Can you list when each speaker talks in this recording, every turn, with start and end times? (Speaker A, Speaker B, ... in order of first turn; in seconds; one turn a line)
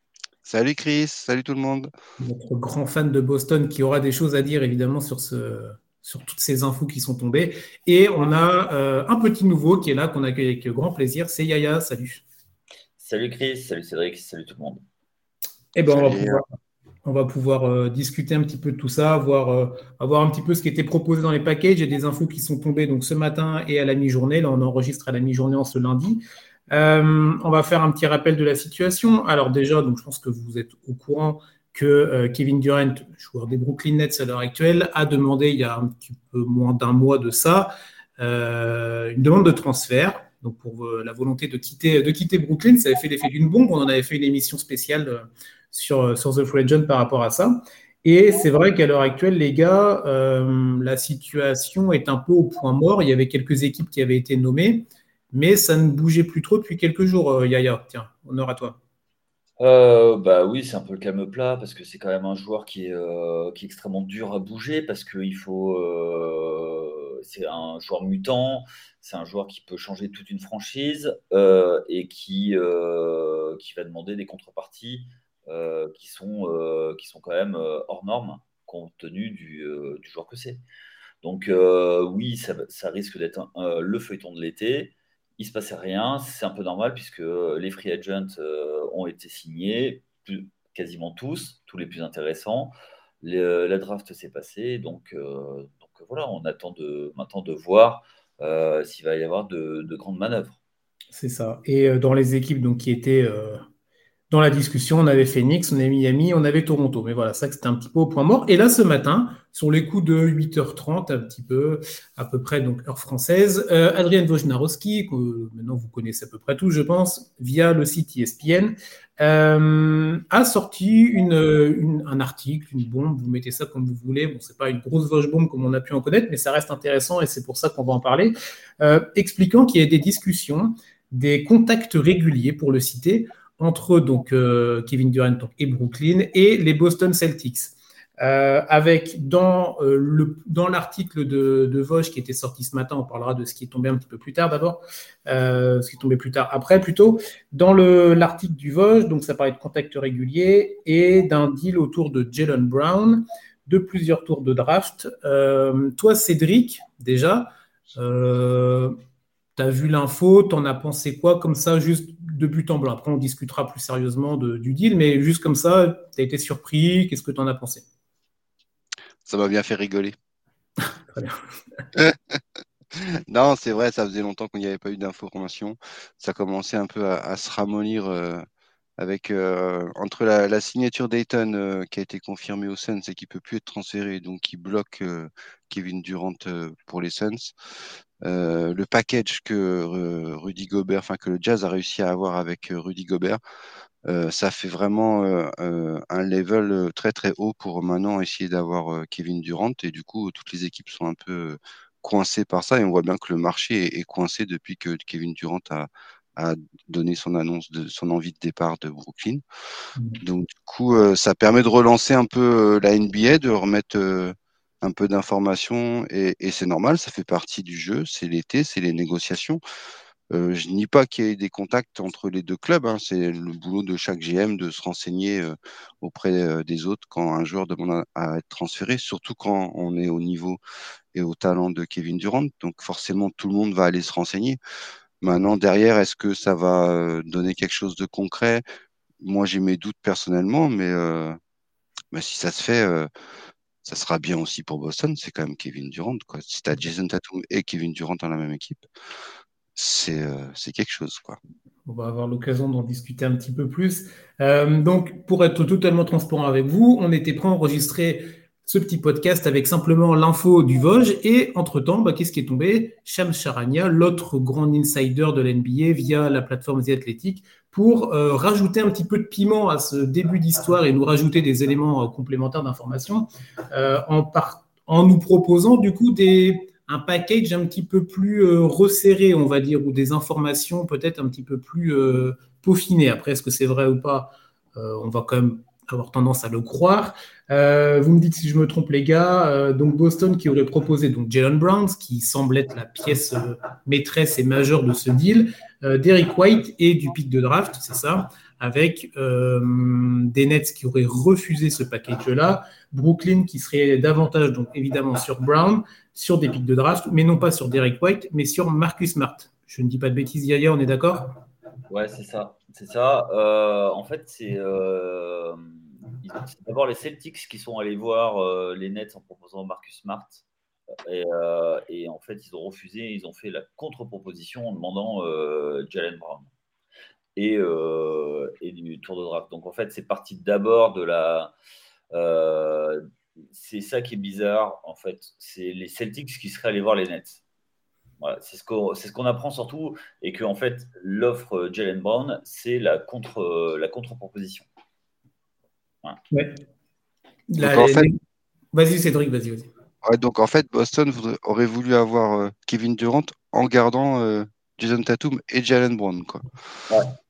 Speaker A: 0.4-1.9
Speaker B: 2.2-12.2
Speaker C: 13.0-14.8
Speaker B: 15.7-16.4
Speaker A: 15.9-16.4
Speaker B: 17.0-58.8
Speaker C: 59.6-80.6
Speaker C: 81.2-100.6
Speaker B: 101.1-103.6
Speaker B: 104.3-158.9
Speaker B: 159.6-167.8
Speaker A: 169.2-170.2
Speaker B: 171.1-171.3
Speaker A: 171.9-172.4
Speaker A: 173.0-178.4
Speaker A: 179.0-187.5
Speaker A: 188.2-193.4
Speaker A: 194.1-209.4
Speaker A: 210.2-219.6
Speaker A: 220.3-230.6
Speaker A: 231.1-234.6
Speaker A: 235.2-238.6
Speaker A: 239.2-241.4
Speaker A: 242.1-243.1
Speaker A: 243.8-248.9
Speaker A: 249.8-251.4
Speaker B: 251.8-311.3
Speaker C: 311.9-320.4
Speaker C: 321.0-326.5
Speaker C: 327.4-331.5
Speaker C: 332.1-337.4
Speaker C: 338.2-344.7
Speaker B: 346.3-346.6
Speaker B: 347.5-348.2
Speaker A: 347.6-348.1
Speaker B: 348.7-349.7
Speaker A: 350.0-356.4